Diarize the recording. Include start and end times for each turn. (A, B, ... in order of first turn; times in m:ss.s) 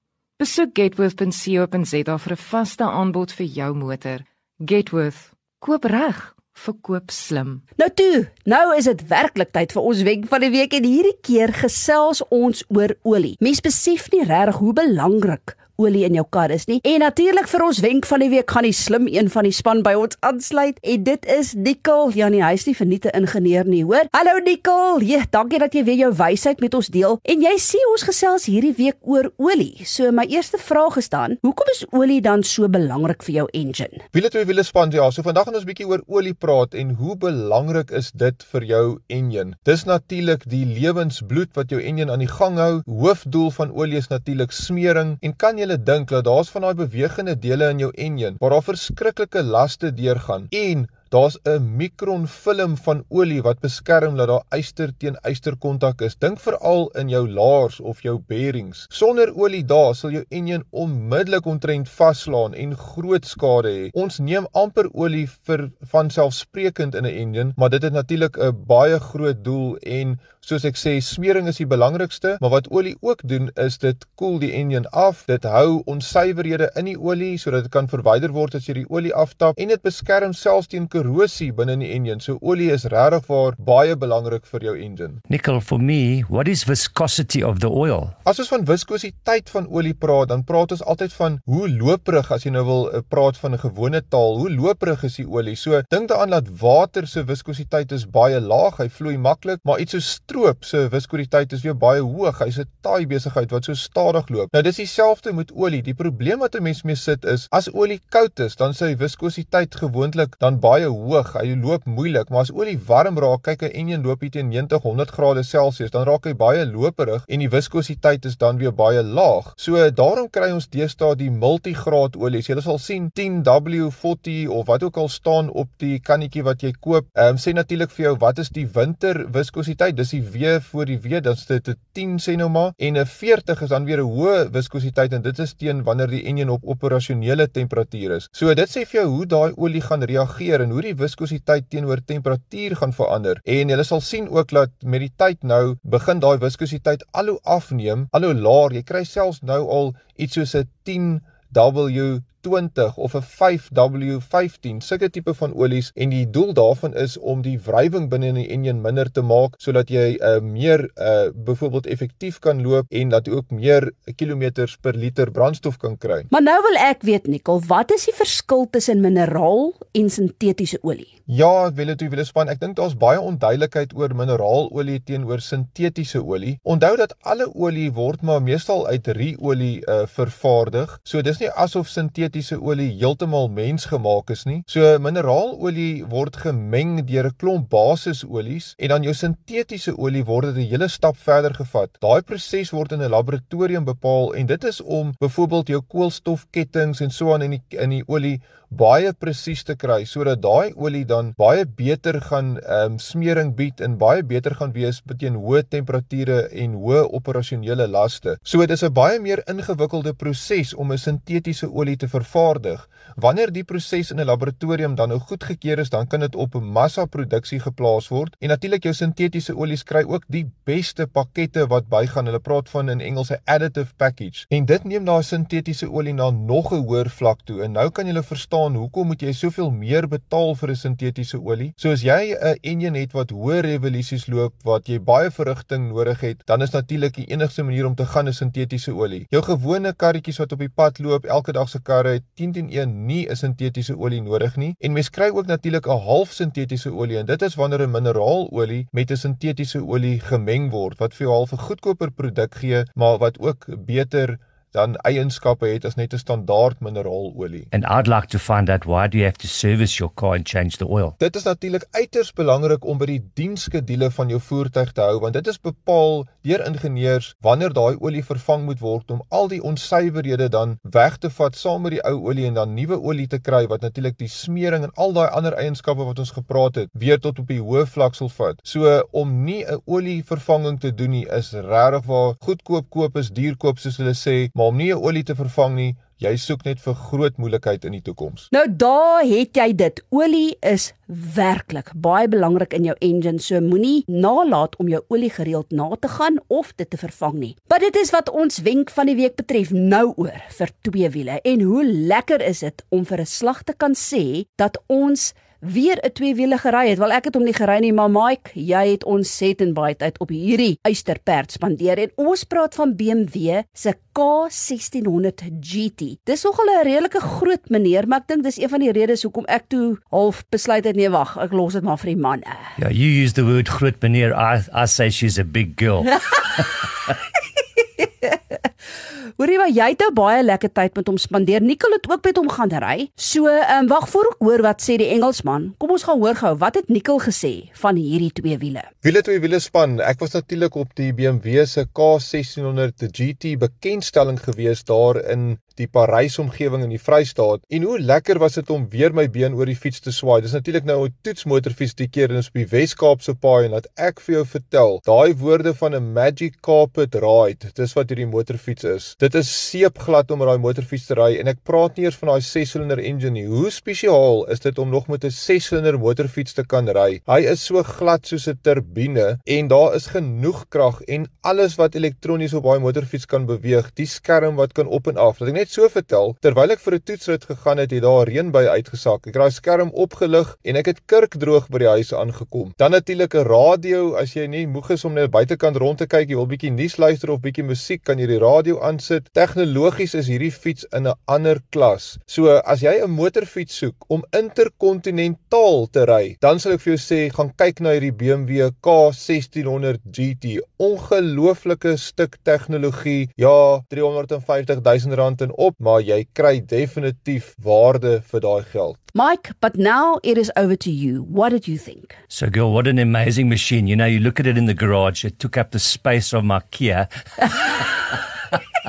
0:00.4-0:07.6 A
0:07.8-0:34.0 B
0:34.1-1:25.2 C
1:25.3-1:28.1 D
1:28.2-2:46.3 C
2:46.3-2:51.1 B
2:51.3-4:17.7 C
4:17.7-4:21.2 D
4:21.2-4:48.5 C
4:48.5-5:22.7 B
5:22.8-5:26.6 D
5:28.0-5:28.3 B
5:29.4-5:38.9 B
5:39.0-6:49.0 C
6:49.1-6:52.2 B
6:52.3-6:58.6 D